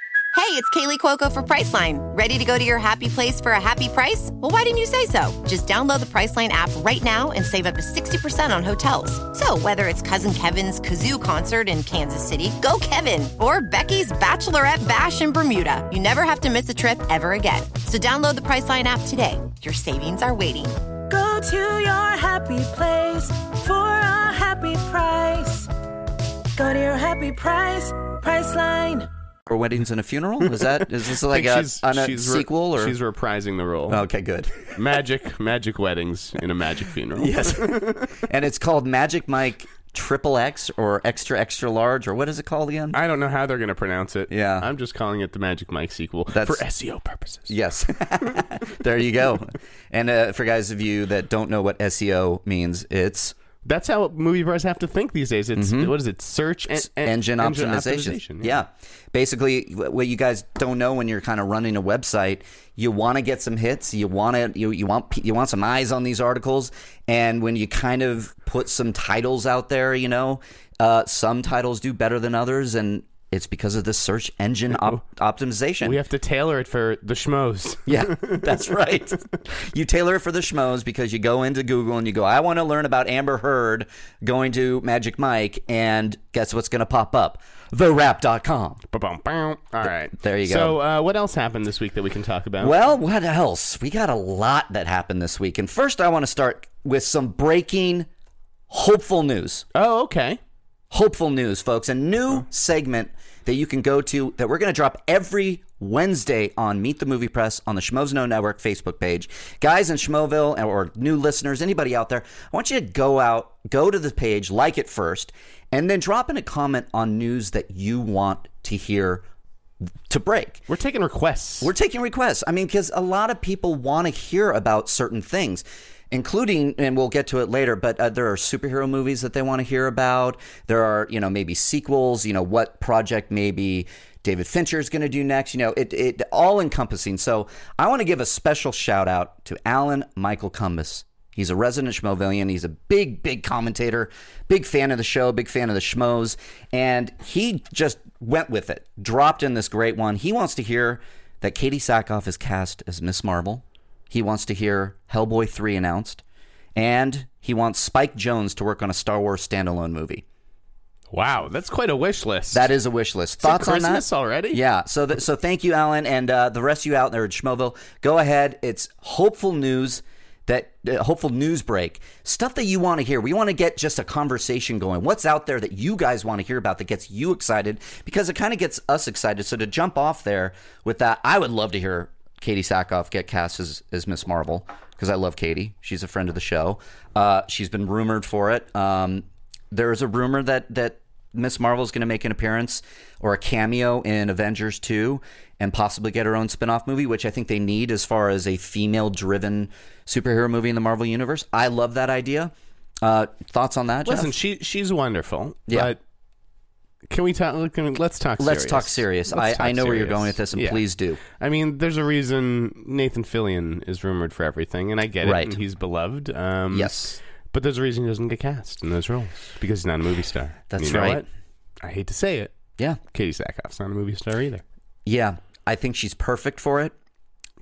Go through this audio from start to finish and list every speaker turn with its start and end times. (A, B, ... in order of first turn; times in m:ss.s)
0:00.3-0:20.8 A
0:21.1-0:25.7 B
0:26.6-0:29.1 B
0:29.5-0:33.0 C
0:30.5-0:34.0 D
0:33.9-0:34.7 C
0:34.7-0:38.2 D
0:37.2-0:43.0 C
0:42.9-0:47.5 D
0:44.3-0:44.7 C
0:46.3-0:46.6 C
0:47.5-0:53.4 C
0:53.6-0:58.6 D
0:55.6-0:56.0 C
0:56.9-1:16.0 C
1:15.8-1:18.5 D
1:17.9-1:28.8 C
1:28.9-1:32.8 D
1:30.1-1:30.8 C
1:32.6-1:38.1 C
1:38.7-1:39.7 C
1:39.8-1:40.4 D
1:40.9-1:59.2 C
2:00.1-2:00.6 C
2:00.7-2:01.7 D
2:01.6-2:36.2 C
2:36.8-2:40.2 C
2:41.1-2:42.7 D
2:42.5-3:24.4 C
2:43.4-2:44.6 D
3:24.1-3:26.0 D
3:27.1-3:41.2 D
3:28.4-3:31.2 C
3:35.2-3:35.6 C
3:36.7-3:37.2 C
3:40.7-3:41.2 C
3:41.8-3:42.6 D
3:43.1-3:44.6 D
3:45.1-3:47.0 C